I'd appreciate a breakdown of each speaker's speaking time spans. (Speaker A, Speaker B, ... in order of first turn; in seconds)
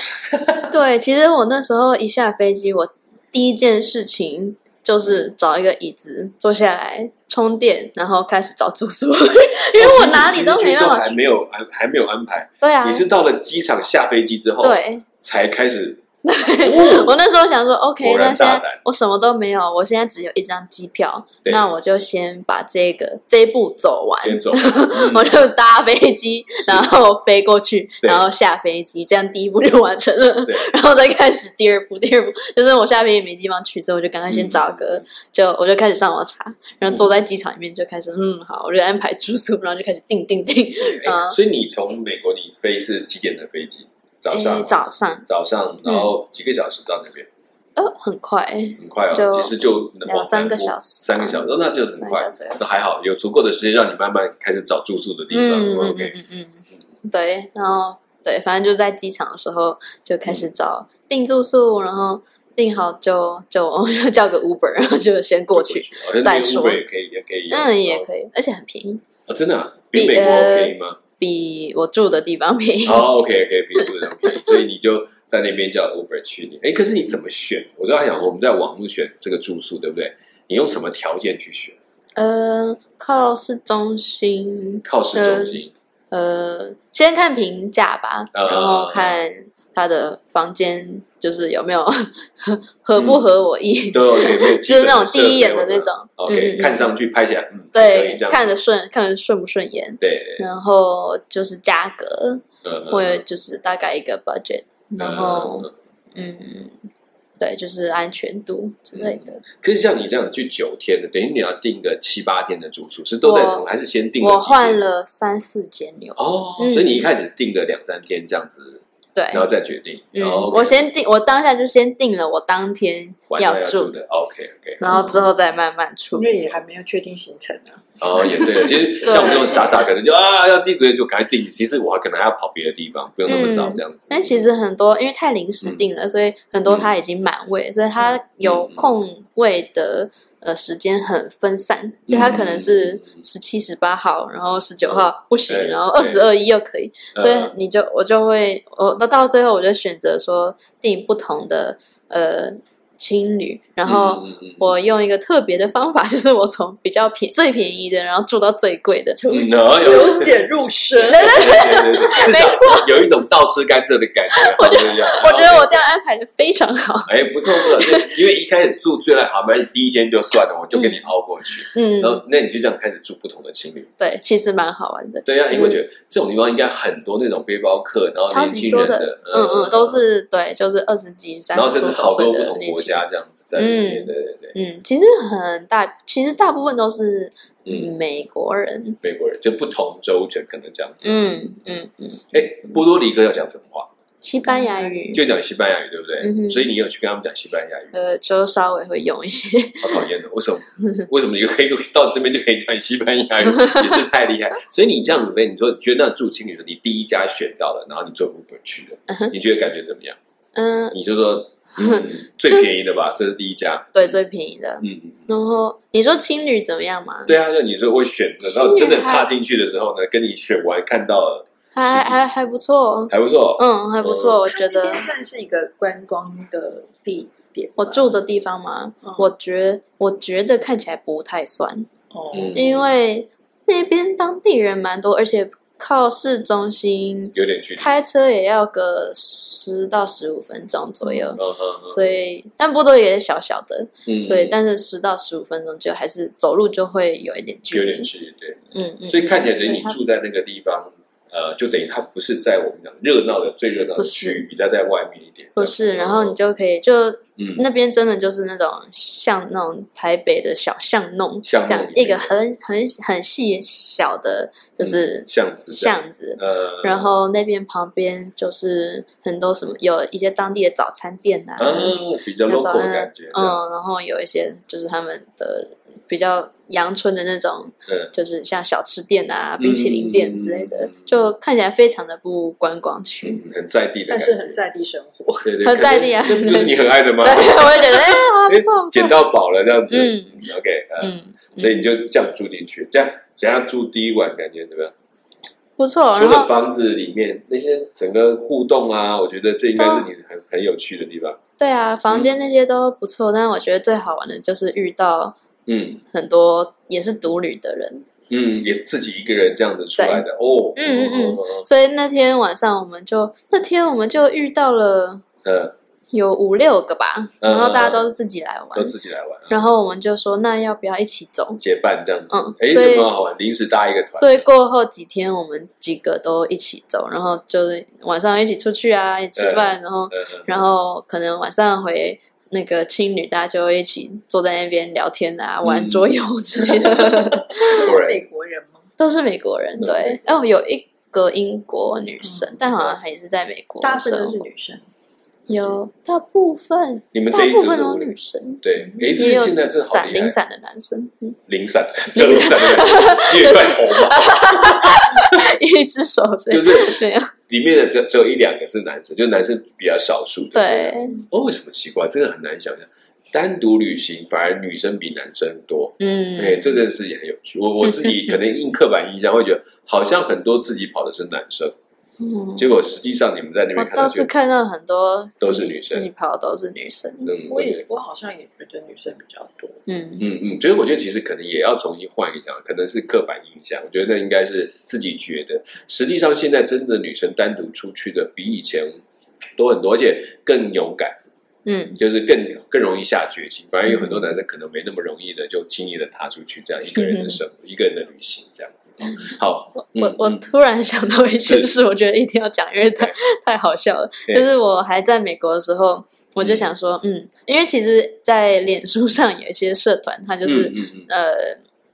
Speaker A: 0.7-11.2, 12.6-13.1, 14.6-15.0, 16.2-41.4, 44.3-45.2, 47.8-52.6, 55.3-66.8, 67.5-69.0, 69.9-73.1, 73.8-74.6, 82.2-96.9, 97.7-106.8, 107.4-109.4, 113.2-113.7, 114.2-117.1, 119.1-119.5, 120.1-123.9, 124.8-126.4, 129.0-129.6, 133.3-159.2, 161.1-162.9, 164.3-168.1, 170.7-171.0, 171.7-172.2, 174.0-175.8, 178.3-183.0, 183.5-189.0, 191.0-192.3, 194.2-195.2, 196.2-196.7, 197.9-200.0, 210.5-210.9, 211.8-212.7, 213.9-217.3, 218.4-219.3, 221.7-225.1, 227.8-231.9, 232.5-248.1, 248.7-250.0, 253.9-254.4, 255.6-283.4, 285.6-289.2, 289.9-290.4, 291.0-291.8, 295.8-296.5, 299.8-300.1, 301.6-305.4, 306.1-308.1, 310.0-310.2, 310.8-315.2, 316.1-318.9, 319.5-321.6, 322.3-323.1, 324.2-337.9, 339.0-344.4, 345.5-348.6, 349.1-351.4, 352.1-357.3, 360.5-361.2, 366.0-366.8, 367.8-368.4, 372.2-372.6, 373.8-377.3, 379.9-380.2, 391.6-392.0, 393.9-394.3, 396.9-397.4, 399.1-411.6
Speaker B: 9.8-16.0, 16.6-17.1, 18.0-18.8, 24.2-25.4, 26.6-27.0, 34.3-35.0, 40.8-47.3, 48.8-56.1, 65.5-68.1, 69.3-71.0, 72.8-81.8, 84.8-85.7, 88.3-89.2, 93.0-93.2, 93.9-98.5, 100.0-100.4, 102.6-103.2, 105.0-105.7, 108.9-114.8, 116.2-120.8, 123.3-125.3, 128.0-134.4, 138.4-138.8, 142.1-143.0, 144.9-146.2, 147.1-147.5, 153.8-154.7, 159.3-165.8, 167.1-173.9, 175.2-180.0, 181.5-184.5, 187.7-187.9, 189.0-191.4, 192.3-193.9, 195.1-197.9, 199.8-210.2, 210.9-214.2, 214.8-215.2, 217.3-222.2, 223.1-224.4, 232.3-232.6, 237.3-238.0, 241.3-242.1, 244.1-244.5, 247.7-256.4, 261.4-262.4, 264.8-267.1, 271.6-273.6, 279.6-281.1, 283.2-284.6, 285.4-294.9, 296.1-301.4, 305.7-306.0, 308.3-311.6, 315.4-315.7, 317.4-318.1, 318.7-319.6, 321.6-324.5, 329.4-330.6, 335.6-336.1, 337.8-338.2, 339.8-340.2, 347.1-350.4, 351.5-355.5, 356.5-371.7, 372.6-374.3, 375.4-376.1, 377.2-377.8, 380.2-389.0, 389.6-391.2, 392.0-400.4, 401.4-401.7, 406.4-406.6, 410.4-411.1
Speaker C: 126.1-129.8, 159.2-161.6, 224.4-228.1, 232.1-232.8, 284.1-285.6, 337.2-338.9, 342.2-342.5, 343.8-344.8, 348.9-349.2, 377.5-379.8